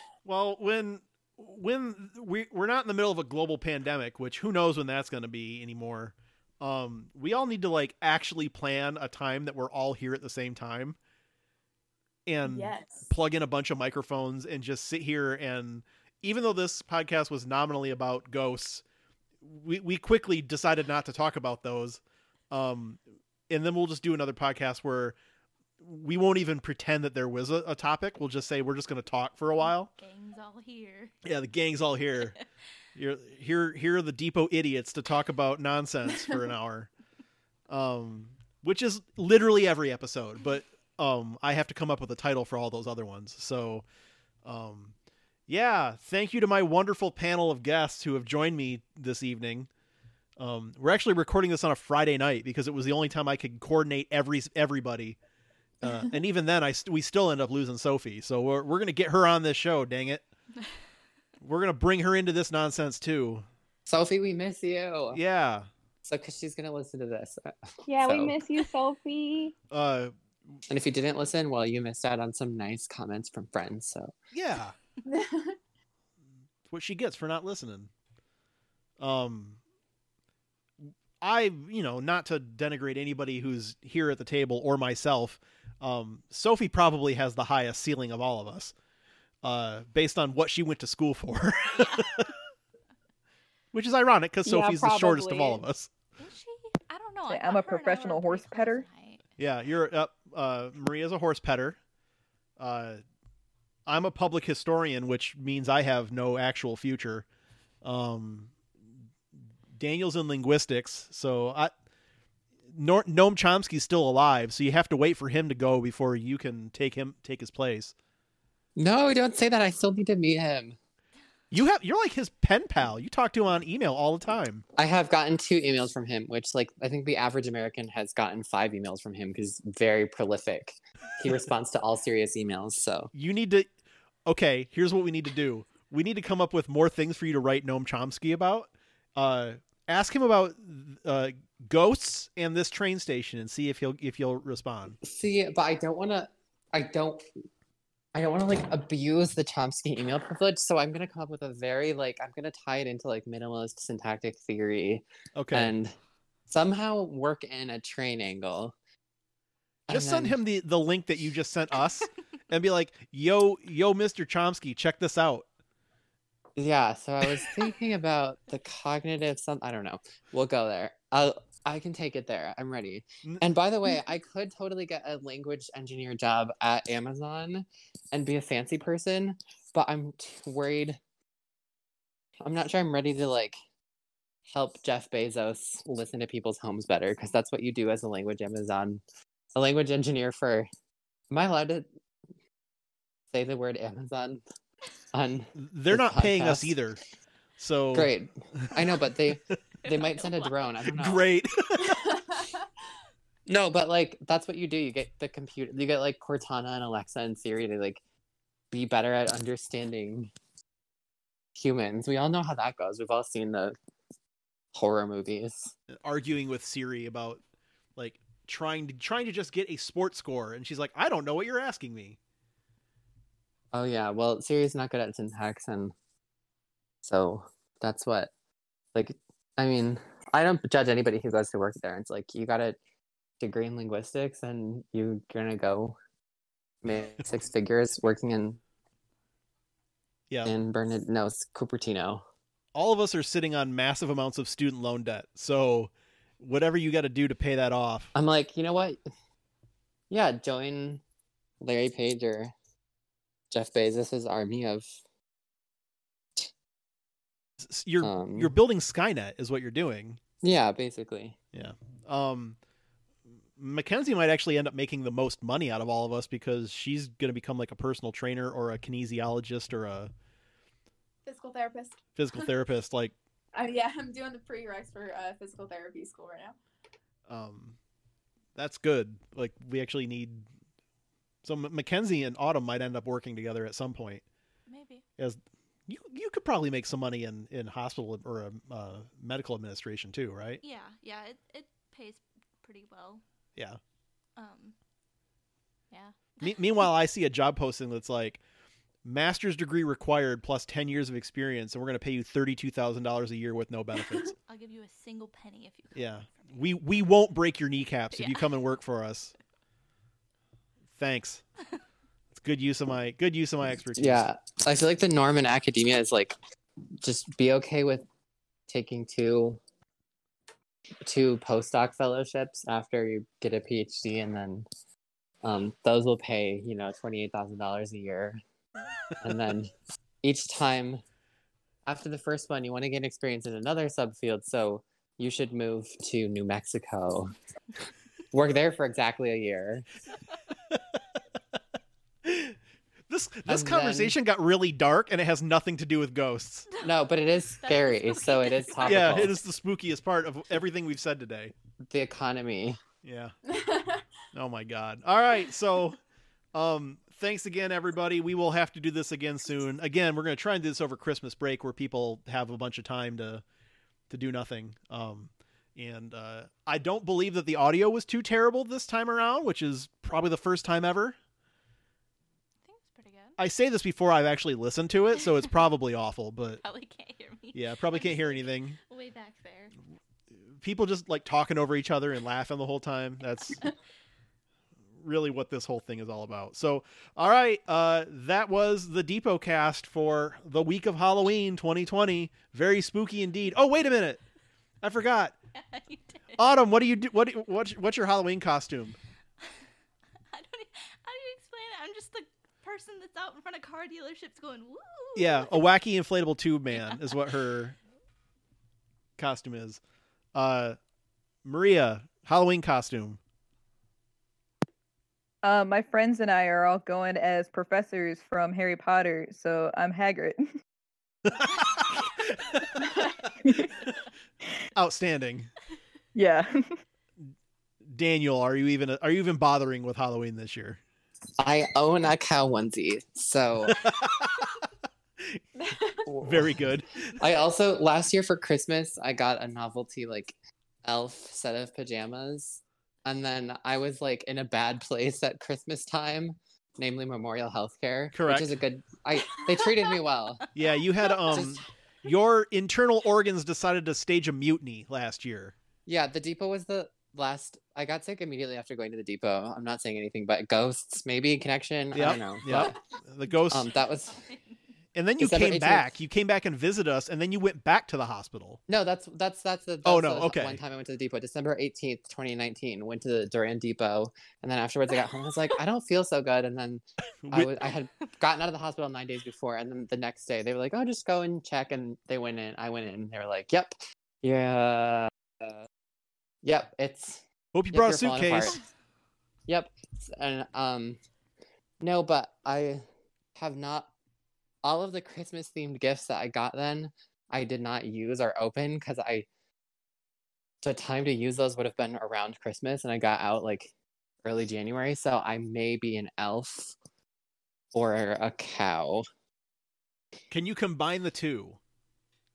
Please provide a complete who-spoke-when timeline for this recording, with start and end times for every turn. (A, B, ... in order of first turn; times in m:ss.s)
0:00.2-0:11.0 A
0:12.3-0:18.8 A
0:12.4-0:13.0 B
0:19.4-0:25.2 A
0:25.8-0:29.9 A
0:30.0-0:31.2 C
0:31.2-0:32.4 A
0:32.9-0:36.9 A
0:37.7-0:43.8 A
0:44.4-0:44.9 A
0:45.5-0:49.7 A
0:50.4-0:55.2 A
0:55.8-1:00.2 A
0:55.8-0:56.1 B
1:01.4-1:03.4 A
1:03.8-1:05.2 D
1:05.1-1:05.7 A
1:06.0-1:08.4 D
1:07.8-1:09.5 E
1:09.7-1:10.1 A
1:10.7-1:14.1 D
1:14.3-1:14.7 A
1:15.0-1:15.6 B
1:16.7-1:17.9 A
1:19.0-1:19.6 A
1:20.8-1:28.7 A
1:29.4-1:32.4 A
1:31.8-1:32.3 C
1:33.7-1:35.9 A
1:34.4-1:35.6 E
1:36.2-1:39.2 C
1:37.3-1:38.8 F
1:39.4-1:41.8 A
1:42.6-1:43.0 A
1:43.9-1:47.2 A
1:47.8-1:48.5 A
1:49.7-1:51.7 A
1:52.7-1:57.9 A
1:58.8-2:00.8 D
2:01.5-2:04.6 A
2:04.8-2:13.1 D
2:13.1-2:13.7 A
2:14.2-2:25.0 A
2:25.0-2:27.2 D
2:28.1-2:36.0 D
2:35.4-2:35.7 A
2:36.5-2:38.7 D
2:39.9-2:40.4 D
2:39.9-2:45.4 A
2:46.6-3:01.0 D
3:02.4-3:03.6 D
3:04.5-3:09.0 D
3:09.5-3:10.7 D
3:11.3-3:11.9 D
3:13.3-3:14.4 D
3:15.1-3:16.8 D
3:15.6-3:17.0 A
3:17.6-3:18.1 A
3:17.9-3:21.2 D
3:19.9-3:20.6 C
3:20.9-3:22.1 A
3:21.8-3:22.7 B
3:23.5-3:28.0 D
3:28.7-3:30.3 D
3:31.5-3:33.7 D
3:34.7-3:35.7 D
3:35.9-3:37.4 A
3:38.0-3:42.2 A
3:43.7-3:45.9 D
3:47.0-3:48.3 D
3:48.9-3:52.8 D
3:53.4-3:56.0 D
3:56.8-3:58.6 D
4:00.4-4:02.2 D
4:02.7-4:08.1 A
4:08.1-4:09.0 D
4:10.1-4:11.0 D
4:11.6-4:12.5 D
4:13.5-4:15.0 D
4:17.6-4:20.2 A
4:18.0-4:18.5 D
4:20.4-4:21.4 D
4:21.5-4:22.6 A
4:23.6-4:30.1 A
4:31.2-4:32.0 B
4:32.2-4:33.1 A
4:33.6-4:36.6 B
4:37.3-4:37.8 A
4:38.5-4:40.5 A
4:41.4-4:44.2 A
4:44.7-4:45.0 C
4:45.2-4:50.6 A
4:50.6-4:53.2 C
4:54.4-4:54.7 C
4:55.9-4:56.8 C
4:56.4-4:58.4 A
4:59.0-5:04.3 A
5:04.5-5:06.8 C
5:05.9-5:09.3 A
5:08.1-5:08.6 C
5:11.0-5:11.4 A
5:12.3-5:14.2 A
5:13.9-5:16.3 D
5:17.0-5:18.0 D
5:18.7-5:19.6 D
5:21.0-5:24.6 D
5:25.4-5:28.4 D
5:29.2-5:29.7 D
5:30.2-5:31.0 D
5:31.8-5:37.3 D
5:38.3-5:39.9 D
5:40.7-5:41.0 A
5:42.2-5:42.6 A
5:43.1-5:46.7 A
5:43.5-5:44.1 D
5:46.8-5:49.3 D
5:47.6-5:49.2 C
5:48.8-5:51.5 A
5:51.9-5:52.8 D
5:53.0-5:53.3 A
5:53.5-5:54.0 B
5:54.3-5:56.0 A
5:56.5-6:03.4 A
6:04.1-6:11.2 A
6:12.6-6:13.4 C
6:13.4-6:16.6 A
6:16.6-6:19.8 C
6:17.5-6:18.8 A
6:20.5-6:23.6 A
6:25.0-6:34.2 A
6:34.8-6:35.4 A
6:35.5-6:36.4 C
6:36.4-6:39.0 A
6:40.3-6:45.6 C
6:45.2-6:47.8 A
6:46.8-6:47.2 C
6:49.2-6:49.8 A
6:50.3-6:50.8 A
6:51.4-6:53.2 A
6:55.4-7:00.6 F
7:01.3-7:02.8 A
7:02.8-7:03.2 B
7:03.4-7:03.7 F
7:04.7-7:05.5 A
7:06.1-7:06.8 F
7:07.8-7:10.8 A
7:11.4-7:13.8 D
7:13.7-7:14.6 A
7:15.6-7:16.0 B
7:16.0-7:16.6 D
7:16.2-7:17.0 A
7:17.2-7:30.4 D
7:28.1-7:28.6 A
7:29.4-7:29.9 B
7:30.5-7:35.5 A
7:31.3-7:31.6 D
7:35.8-7:42.8 D
7:41.9-7:43.7 A
7:43.5-7:44.1 D
7:43.7-7:44.6 C
7:44.9-7:48.6 A
7:45.2-7:45.9 D
7:48.7-8:05.6 D
7:49.8-7:50.6 A
7:57.2-7:57.5 A
8:06.4-8:08.6 D
8:07.5-8:08.6 A
8:09.5-8:11.0 D
8:11.8-8:13.9 D
8:14.6-8:19.3 D
8:20.6-8:23.7 D
8:24.2-8:26.7 D
8:27.7-8:29.0 D
8:30.3-8:31.6 A